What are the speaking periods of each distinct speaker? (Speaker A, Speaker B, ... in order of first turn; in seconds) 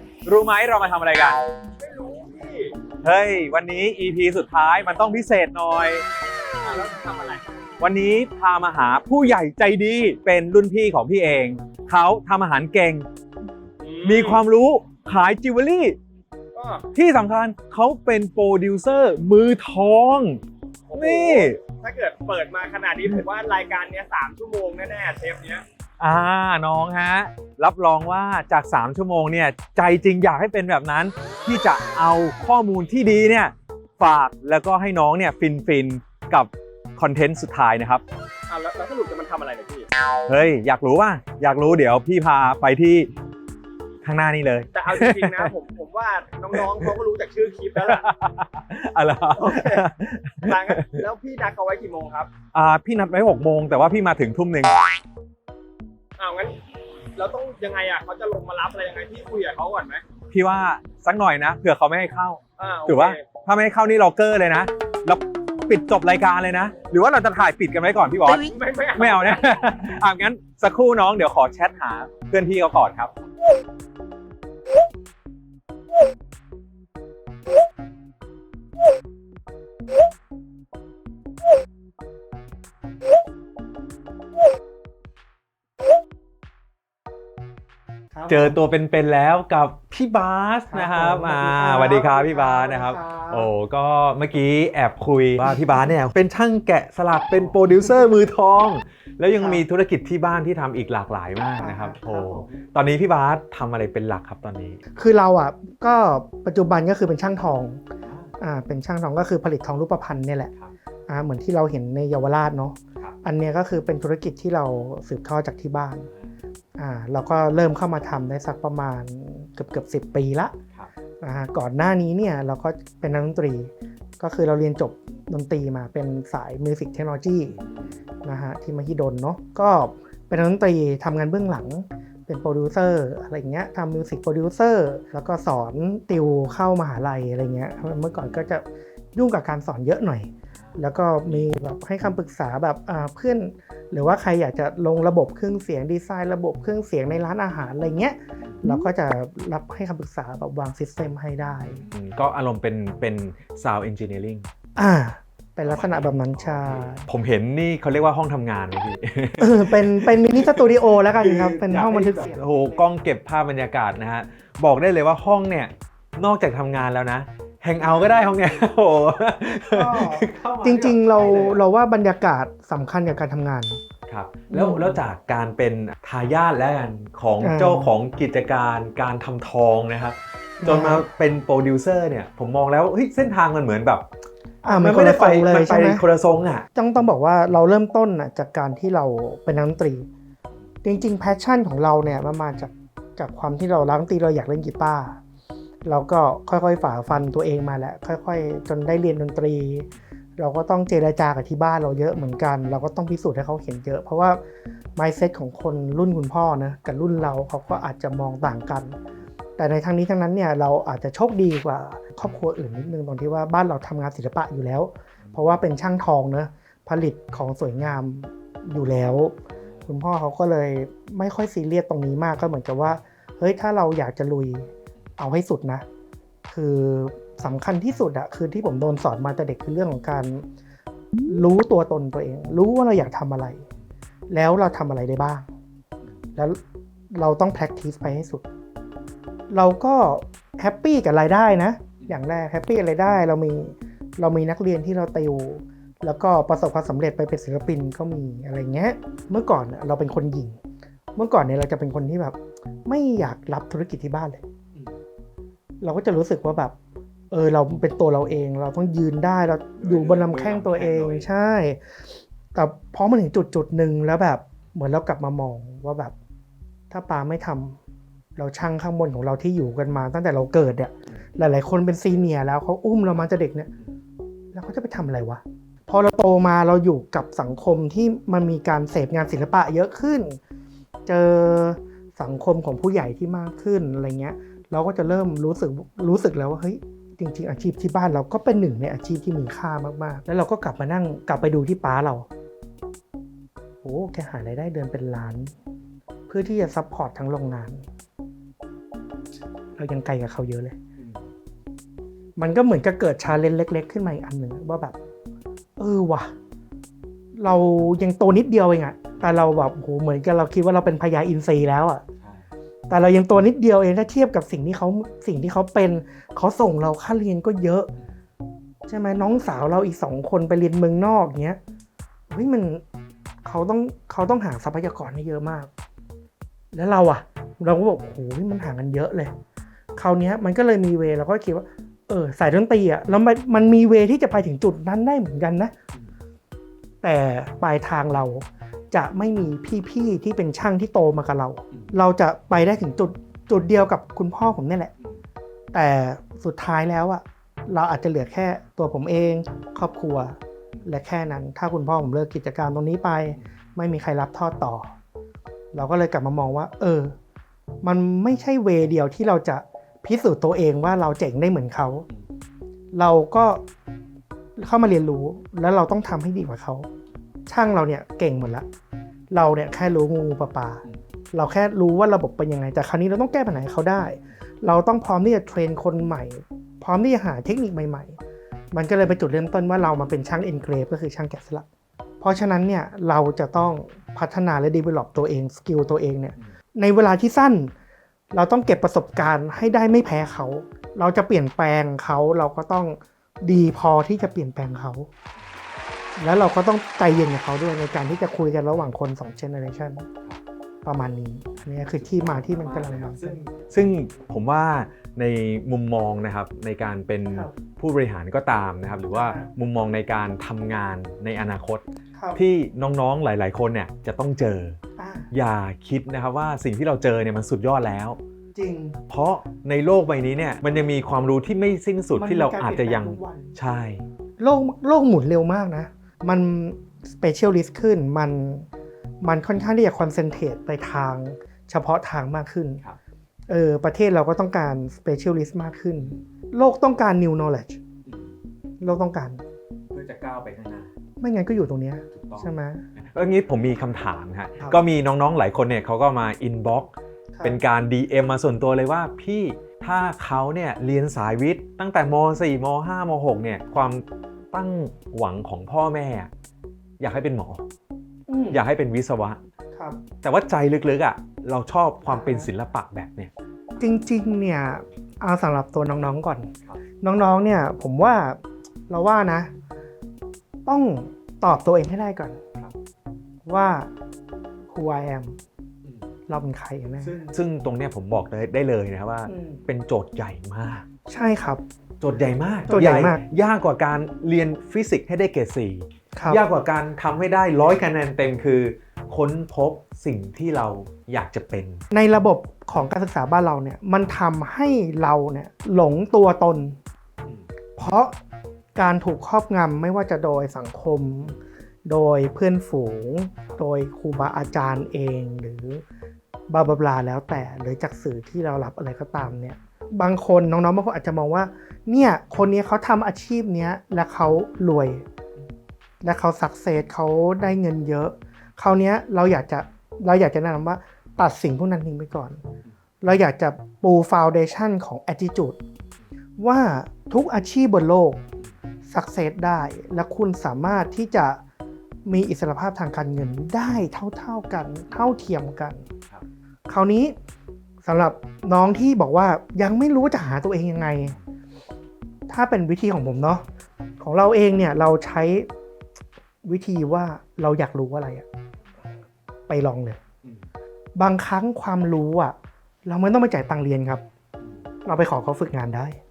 Speaker A: 0.2-1.4, 3.0-6.0, 7.8-13.1, 14.0-16.0, 16.9-20.4, 20.9-21.6, 26.0-38.0, 40.3-43.1, 44.0-45.5, 46.5-46.9, 47.8-51.0, 52.5-54.8, 60.3-73.1, 88.3-104.8, 108.0-108.3, 116.1-116.3, 127.5-128.0, 140.5-141.5, 151.8-154.5, 155.7-171.6, 174.1-184.1, 184.7-186.7, 215.2-215.6, 219.6-219.9, 259.8-261.3, 301.0-301.3, 312.2-312.5, 401.6-411.8, 412.3-414.8, 415.3-418.2, 419.1-424.1, 438.1-438.4, 439.9-440.9, 442.1-456.3, 457.0-457.6, 458.5-459.4, 460.2-463.3, 475.8-476.1, 477.0-480.9, 482.0-491.8, 550.2-550.5
Speaker B: 1.8-2.7, 6.6-7.4, 13.8-14.4, 16.5-16.9, 20.9-25.6, 38.5-39.9, 44.8-48.0, 49.4-49.9, 50.4-52.3, 56.2-56.5, 57.2-60.0, 62.6-63.2, 68.3-69.5
Speaker C: 88.1-88.6, 90.7-93.5, 95.5-95.9, 97.3-98.1, 99.3-99.6, 101.6-102.5, 105.0-107.8, 108.4-110.5, 111.1-116.1, 116.8-120.6, 121.2-127.6, 128.2-151.8, 154.8-157.1, 159.4-162.8, 169.7-173.8, 174.5-175.0, 177.4-177.9, 180.6-181.0, 184.6-186.0, 186.8-190.1, 190.8-195.2, 195.8-204.4, 204.9-209.0, 209.6-219.4, 219.9-225.8, 226.5-230.4, 231.3-233.7, 234.3-235.5, 237.1-238.4, 239.5-250.6, 251.2-254.4, 255.8-256.8, 257.3-266.1, 266.9-267.8, 268.4-273.7, 274.5-280.4, 281.1-292.3, 293.8-295.5, 296.3-297.9, 299.8-300.8, 302.4-304.9, 305.8-306.3, 307.4-312.1, 312.9-317.9, 318.9-321.6, 322.3-322.8, 323.4-325.7, 326.7-329.3, 329.9-335.7, 337.0-344.9, 345.7-354.9, 355.7-357.1, 357.8-362.1, 362.9-363.6, 364.6-366.9, 367.5-368.6, 369.3-378.2, 378.7-381.6, 382.2-387.7, 388.3-395.1, 396.2-400.1, 400.8-403.4, 409.1-409.5, 412.1-412.4, 415.0-415.3, 418.6-419.0, 422.1-423.6, 424.4-428.7, 429.2-432.8, 433.5-437.8, 438.8-439.4, 441.2-442.9, 447.3-447.6, 458.3-458.6, 459.8-460.0, 462.1-462.5, 463.8-466.5, 467.0-469.5, 470.7-472.4, 473.4-473.9, 474.7-475.4, 476.3-477.2, 479.3-479.6, 481.1-481.6, 482.7-483.2, 486.1-486.4, 491.9-496.8, 497.8-498.2, 498.8-505.8, 506.5-515.0, 516.0-522.4, 523.0-525.6, 526.4-528.2, 528.9-531.4, 532.1-535.9, 536.7-537.1, 537.8-541.2, 542.3-543.4, 544.0-545.5, 546.4-548.2, 549.5-550.0, 551.0-554.0, 554.9-556.0